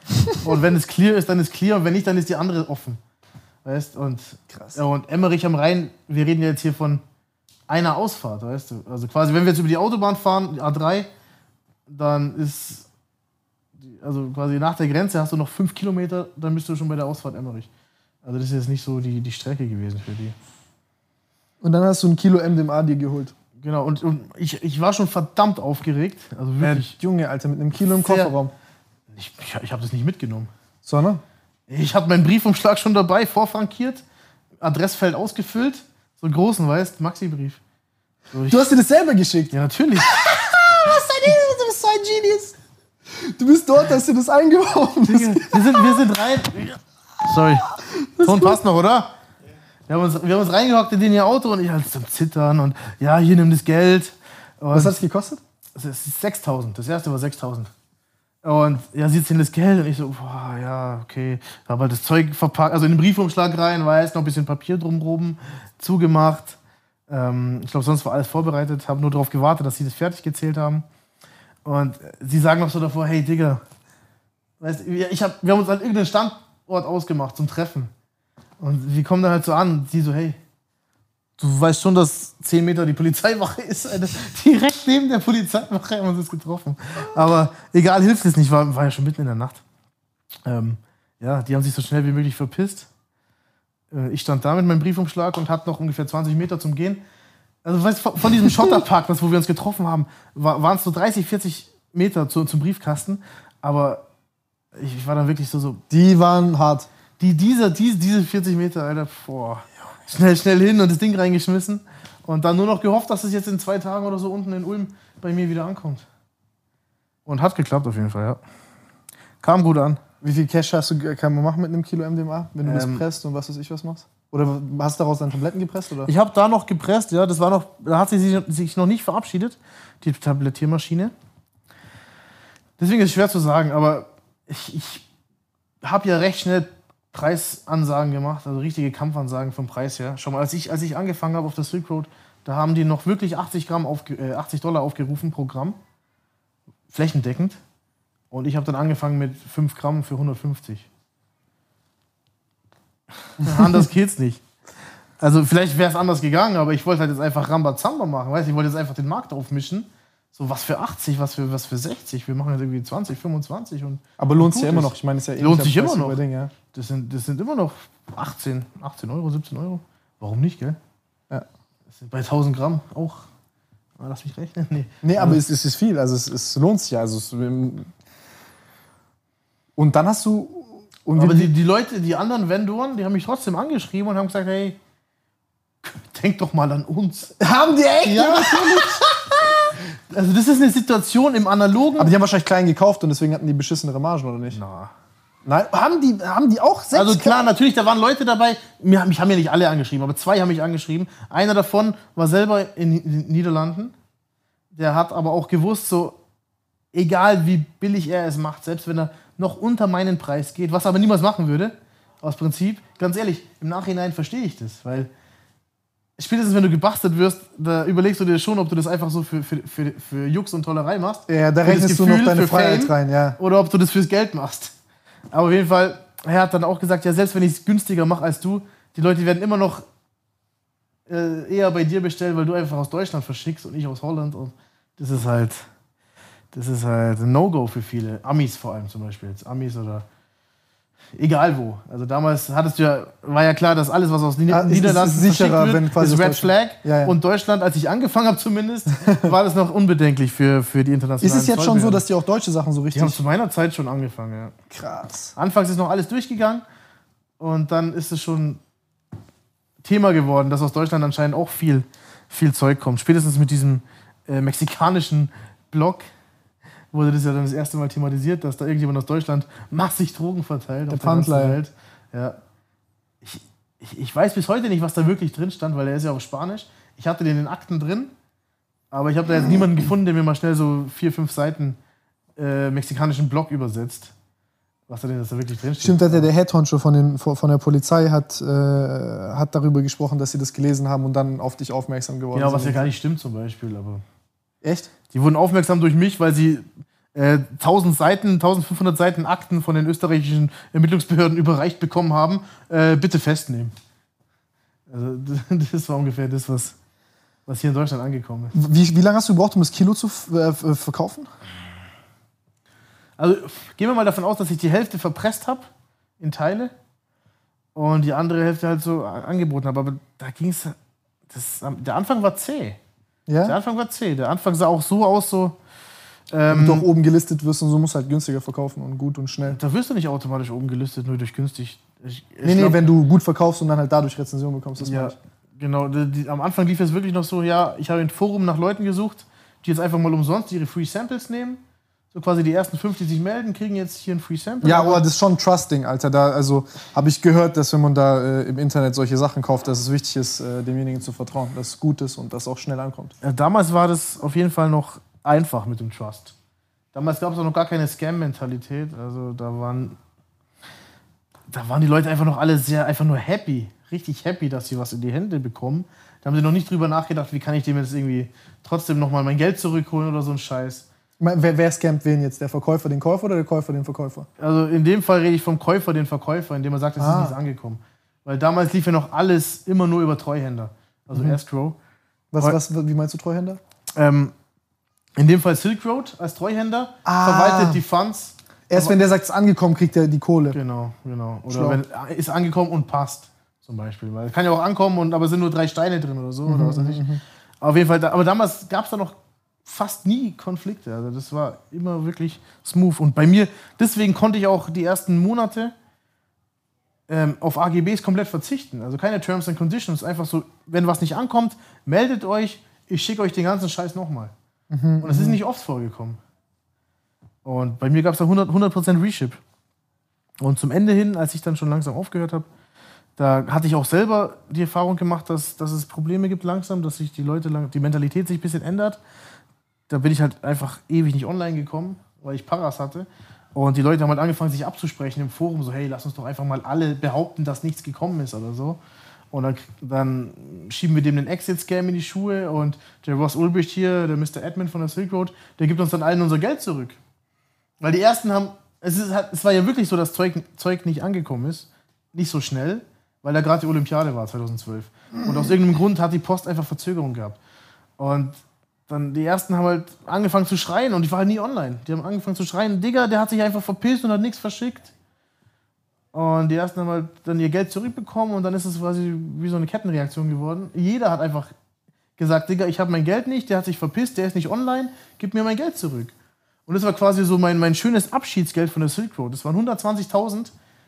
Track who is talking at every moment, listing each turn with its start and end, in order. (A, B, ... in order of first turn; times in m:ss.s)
0:00.4-0:03.0 A
0:03.6-0:07.0 A
0:07.7-0:11.1 A
0:11.9-0:12.9 A
0:13.8-0:17.7 A
0:18.2-0:20.4 A
0:21.6-0:23.3 B
0:23.6-0:27.0 A
0:26.6-0:28.5 B
0:27.8-0:28.3 A
0:29.1-0:30.5 A
0:30.8-0:31.2 B
0:31.7-0:34.0 A
0:34.6-0:37.6 A
0:38.3-0:38.7 A
0:38.5-0:42.6 B
0:39.5-0:40.2 A
0:43.1-0:46.0 B
0:45.1-0:49.1 A
0:47.8-0:48.6 B
0:49.9-0:55.0 A
0:54.7-0:55.4 B
0:55.8-0:57.7 A
0:58.4-1:06.6 A
1:07.1-1:10.9 A
1:11.6-1:13.6 A
1:14.6-1:17.9 A
1:18.6-1:20.4 A
1:21.4-1:29.6 A
1:30.5-1:32.9 A
1:33.9-1:37.0 A
1:37.6-1:44.0 A
1:44.8-1:45.8 A
1:45.9-1:46.9 B
1:47.2-1:56.1 A
1:57.3-1:58.4 A
1:59.4-2:00.0 A
2:00.2-2:06.1 B
2:02.6-2:03.0 A
2:06.1-2:11.1 A
2:12.8-2:15.0 A
2:15.8-2:25.8 A
2:26.9-2:27.6 A
2:28.3-2:30.9 A
2:33.4-2:34.4 A
2:35.2-2:46.2 A
2:44.2-2:46.5 B
2:46.7-2:50.8 A
2:52.0-2:53.2 A
2:54.0-2:55.4 A
2:55.0-2:57.9 B
2:59.8-3:01.5 B
3:01.2-3:04.8 A
3:05.8-3:07.4 A
3:07.4-3:09.4 B
3:08.0-3:09.1 A
3:10.1-3:12.1 A
3:12.0-3:14.6 B
3:14.5-3:14.9 A
3:15.4-3:17.4 B
3:16.9-3:23.9 A
3:24.7-3:26.2 A
3:26.9-3:35.1 A
3:36.2-3:44.8 A
3:41.3-3:43.4 B
3:45.3-3:49.8 A
3:51.1-3:55.6 A
3:56.5-4:00.0 A
4:01.2-4:12.0 A
4:04.5-4:07.2 B
4:11.2-4:13.2 B
4:12.9-4:14.6 A
4:14.7-4:15.3 B
4:15.4-4:16.6 A
4:17.4-4:18.6 A
4:19.8-4:26.0 A
4:26.9-4:32.4 A
4:30.9-4:31.6 B
4:33.2-4:38.1 A
4:38.9-4:41.8 A
4:42.4-4:44.1 A
4:44.9-4:46.3 A
4:45.8-4:52.9 B
4:52.3-4:54.0 A
4:54.6-4:54.9 B
4:55.1-5:03.7 A
5:04.9-5:06.8 A
5:07.5-5:08.5 A
5:08.5-5:11.3 B
5:13.2-5:16.7 A
5:17.8-5:20.8 A
5:21.3-5:22.8 A
5:23.3-5:23.6 B
5:23.4-5:25.6 A
5:26.3-5:26.9 A
5:26.5-5:29.6 B
5:29.5-5:32.8 A
5:32.4-5:35.2 B
5:34.8-5:41.6 A
5:42.1-5:45.0 A
5:44.6-5:53.1 B
5:53.2-5:56.4 A
5:56.9-6:00.0 A
6:01.5-6:10.9 A
6:11.2-6:14.3 B
6:14.4-6:21.8 A
6:17.0-6:17.4 B
6:22.3-6:23.6 B
6:24.0-6:24.3 A
6:25.2-6:29.0 A
6:27.0-6:27.8 B
6:28.7-6:30.6 B
6:30.5-6:37.0 A
6:31.5-6:31.8 B
6:36.5-6:37.2 B
6:37.6-6:45.7 A
6:47.1-6:54.3 A
6:54.7-6:55.4 B
6:55.0-6:56.2 A
6:57.4-6:59.4 A
7:00.4-7:02.5 A
7:03.2-7:09.0 A
7:09.9-7:18.8 A
7:19.3-7:27.0 A
7:27.8-7:37.4 A
7:38.0-7:44.9 A
7:46.1-7:51.5 A
7:52.2-7:56.1 A
7:56.7-8:00.5 A